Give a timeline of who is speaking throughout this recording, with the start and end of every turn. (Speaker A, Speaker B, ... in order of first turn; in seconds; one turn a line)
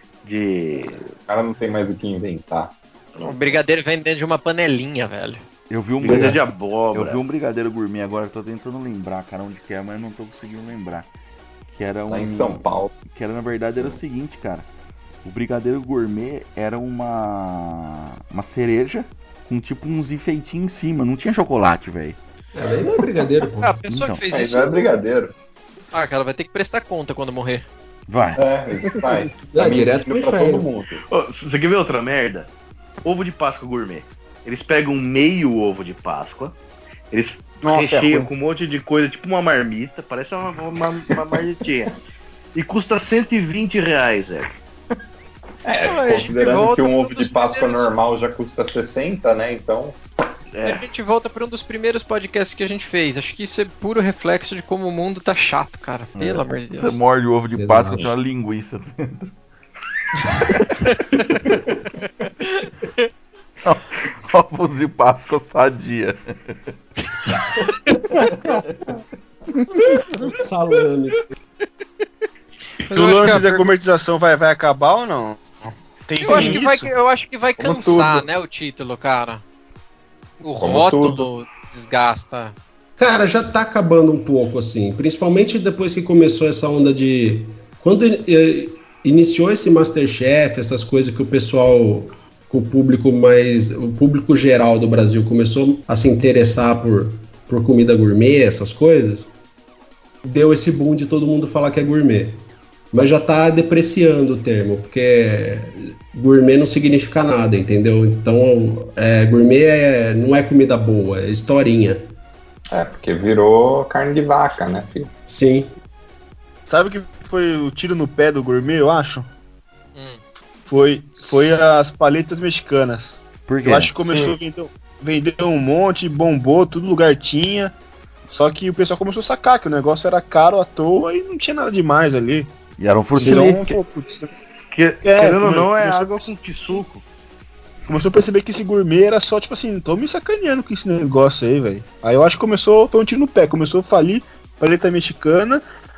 Speaker A: 0.2-1.1
Speaker B: 1.3-2.7
Speaker C: 3.2-5.4
Speaker D: 5.7-6.4
Speaker A: 6.0-7.2
Speaker B: 6.1-6.3
Speaker D: 6.9-11.1
Speaker D: 11.7-14.7
Speaker B: 12.1-13.0
Speaker D: 15.2-22.2
Speaker E: 22.5-23.8
Speaker C: 23.5-24.9
Speaker D: 23.9-24.2
Speaker B: 24.3-25.3
Speaker C: 25.9-27.6
Speaker D: 28.1-28.4
Speaker B: 28.4-31.0
Speaker E: 29.5-30.7
Speaker A: 31.1-32.5
Speaker A: 33.0-36.5
Speaker A: 37.1-42.0
Speaker F: 37.6-38.3
Speaker A: 42.5-44.5
Speaker B: 45.6-50.0
Speaker C: 45.9-47.9
Speaker A: 50.5-50.8
Speaker C: 50.6-57.0
Speaker D: 56.1-59.3
Speaker E: 57.5-58.1
Speaker D: 60.4-60.7
Speaker D: 63.6-66.6
Speaker E: 70.2-71.3
Speaker F: 72.9-76.9
Speaker C: 72.9-73.7
Speaker C: 76.2-79.4
Speaker B: 77.6-78.3
Speaker C: 80.4-82.5
Speaker B: 80.6-81.3
Speaker E: 83.0-99.3
Speaker E: 100.2-112.1
Speaker B: 112.7-115.1
Speaker E: 115.3-115.7
Speaker F: 116.7-119.3
Speaker F: 120.6-127.7
Speaker D: 123.5-123.9
Speaker F: 128.3-132.5
Speaker D: 132.8-133.8
Speaker F: 133.2-134.3
Speaker A: 134.7-137.0
Speaker F: 135.0-136.8
Speaker F: 137.9-145.6